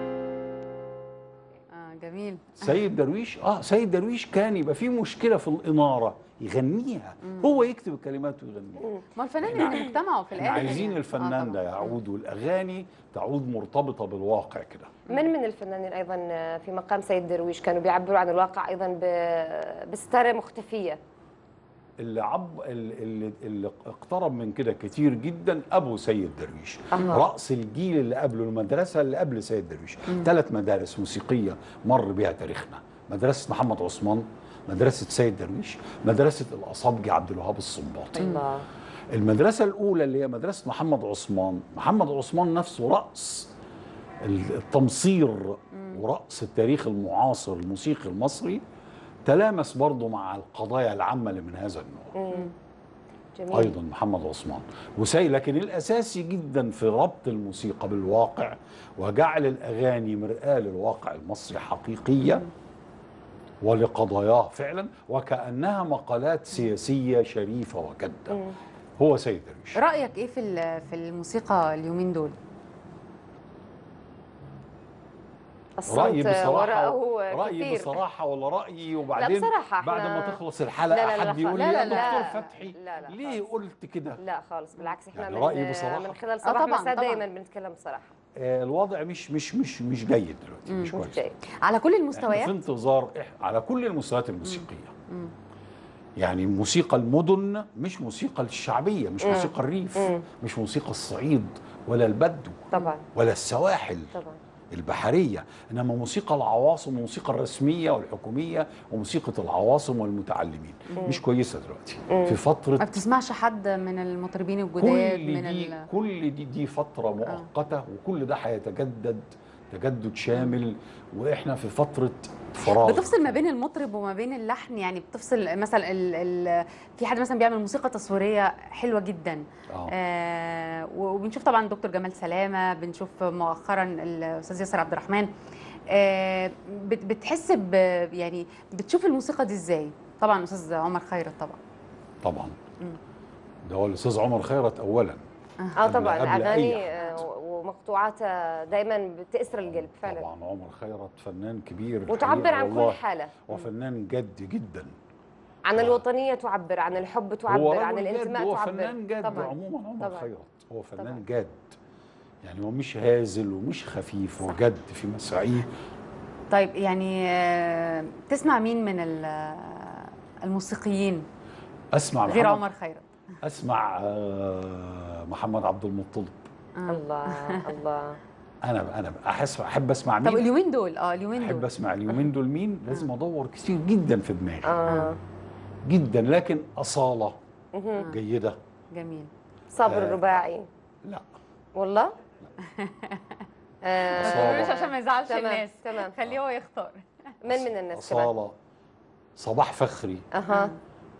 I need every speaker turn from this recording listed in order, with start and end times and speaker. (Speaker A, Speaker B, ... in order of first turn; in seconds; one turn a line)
Speaker A: 1.7-2.8
Speaker B: 2.6-8.9
Speaker A: 9.2-11.6
Speaker B: 9.4-15.0
Speaker C: 15.1-21.0
Speaker B: 22.0-38.3
Speaker C: 26.9-27.3
Speaker C: 38.1-38.7
Speaker B: 39.1-43.5
Speaker B: 44.2-48.6
Speaker B: 49.2-52.2
Speaker C: 52.2-52.5
Speaker C: 53.4-53.8
Speaker B: 53.5-62.5
Speaker B: 63.6-68.4
Speaker C: 68.3-68.6
Speaker B: 69.0-69.8
Speaker A: 69.8-72.3
Speaker C: 75.8-78.0
Speaker B: 75.9-84.2
Speaker C: 79.2-83.4
Speaker A: 81.5-82.5
Speaker C: 84.2-88.1
Speaker B: 85.1-86.2
Speaker A: 86.5-87.2
Speaker B: 88.4-91.2
Speaker A: 90.7-91.0
Speaker C: 90.9-91.4
Speaker A: 91.6-92.6
Speaker B: 92.2-94.9
Speaker A: 94.4-95.3
Speaker B: 96.2-104.1
Speaker C: 99.2-100.2
Speaker C: 102.7-103.0
Speaker C: 104.1-104.4
Speaker B: 104.7-112.9
Speaker C: 112.1-112.4
Speaker A: 112.8-115.9
Speaker B: 114.8-123.4
Speaker A: 122.7-135.3
Speaker A: 135.9-141.6
Speaker B: 142.2-142.6
Speaker B: 143.7-145.2
Speaker C: 145.8-150.3
Speaker B: 145.8-146.9
Speaker B: 149.6-154.9
Speaker C: 152.1-153.6
Speaker C: 155.7-160.3
Speaker B: 155.8-156.0
Speaker B: 157.5-161.8
Speaker C: 161.0-161.2
Speaker B: 162.4-165.7
Speaker A: 166.5-171.2
Speaker B: 171.9-172.7
Speaker A: 172.3-173.1
Speaker B: 173.4-176.4
Speaker A: 176.8-177.6
Speaker C: 176.9-178.2
Speaker B: 178.7-180.5
Speaker A: 180.2-181.7
Speaker B: 181.4-184.8
Speaker C: 184.7-185.2
Speaker B: 185.8-187.4
Speaker C: 187.7-188.1
Speaker B: 188.0-188.6
Speaker A: 188.9-189.3
Speaker C: 189.7-190.7
Speaker B: 189.9-190.2
Speaker C: 191.8-192.2
Speaker A: 192.6-193.4
Speaker C: 193.9-196.2
Speaker B: 194.2-194.8
Speaker A: 194.2-197.0
Speaker C: 197.4-198.3
Speaker B: 197.5-198.6
Speaker B: 199.4-200.3
Speaker C: 200.3-200.7
Speaker A: 200.5-200.8